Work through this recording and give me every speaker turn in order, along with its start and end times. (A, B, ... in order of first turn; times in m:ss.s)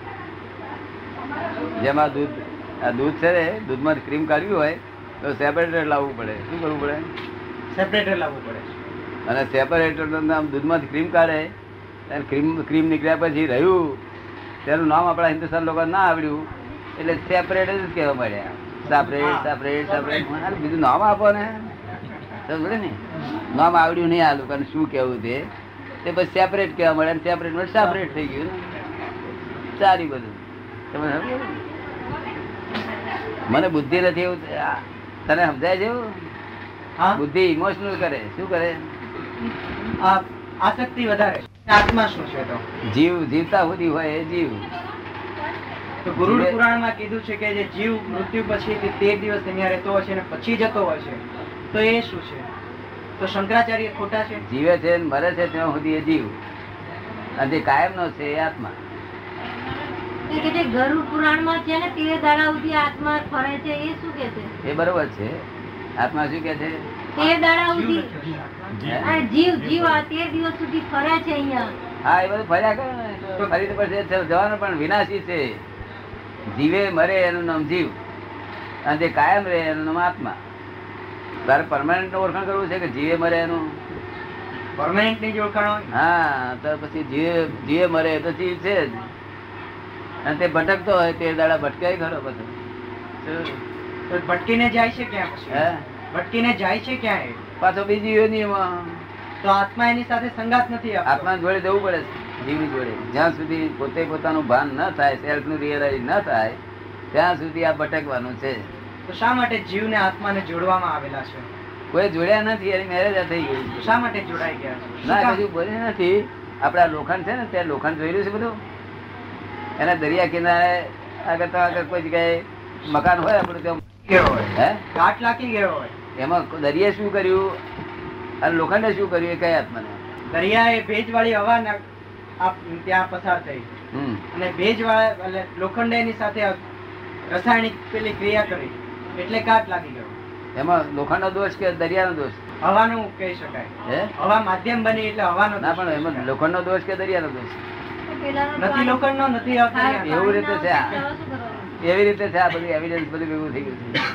0:01.8-0:07.1 A
0:07.7-0:08.7 B
0:09.3-0:11.5 A
0:12.1-0:14.0 A
0:14.6-0:21.7 A
0:19.1-0:19.5 B
0:22.5-0:23.0 A
0:23.5-0:25.4 A
0:26.0-0:28.7 A
0:29.8-0:31.6 A
0:33.5-0:36.2 A
0:37.2-0:38.9 A
0:40.0-0:42.6 B
0:42.9-0:44.7 A
0:46.0-0:52.5 B
0:46.2-0:46.6 A
0:53.2-0:54.4 B
0:54.4-0:56.4 A
0:57.4-0:58.8 A
1:00.3-1:04.5 C
1:04.6-1:05.4 A
1:06.0-1:06.9 A
1:07.2-1:08.1 C
1:07.2-1:09.1 B
1:08.8-1:09.2 A
1:09.0-1:11.7 C
1:12.0-1:15.6 A
1:13.4-1:13.7 B
1:16.5-1:18.0 A
1:18.8-1:20.4 A
1:21.5-1:23.8 A
1:24.8-1:26.0 B
1:25.9-1:29.1 A
1:30.2-1:32.6 A
1:33.2-1:33.6 A
1:34.1-1:37.4 B
1:35.5-1:35.8 A
1:37.6-1:39.0 A
1:39.4-1:41.3 B
1:41.1-1:46.6 A
1:47.1-1:48.6 A
1:49.1-1:51.5 B
1:51.9-1:54.0 A
1:53.8-1:55.4 B
1:55.0-1:58.6 A
1:59.8-2:03.8 A
2:04.1-2:05.9 B
2:04.5-2:04.8 A
2:06.2-2:07.6 A
2:08.4-2:10.0 A
2:10.3-2:11.8 B
2:12.4-2:13.7 B
2:13.9-2:14.2 A
2:14.3-2:16.6 B
2:17.3-2:20.1 B
2:20.6-2:22.4 A
2:22.6-2:26.3 B
2:23.9-2:24.1 A
2:25.6-2:27.6 A
2:28.1-2:29.0 C
2:28.6-2:30.3 B
2:29.7-2:31.8 C
2:30.0-2:31.0 A
2:31.8-2:34.0 A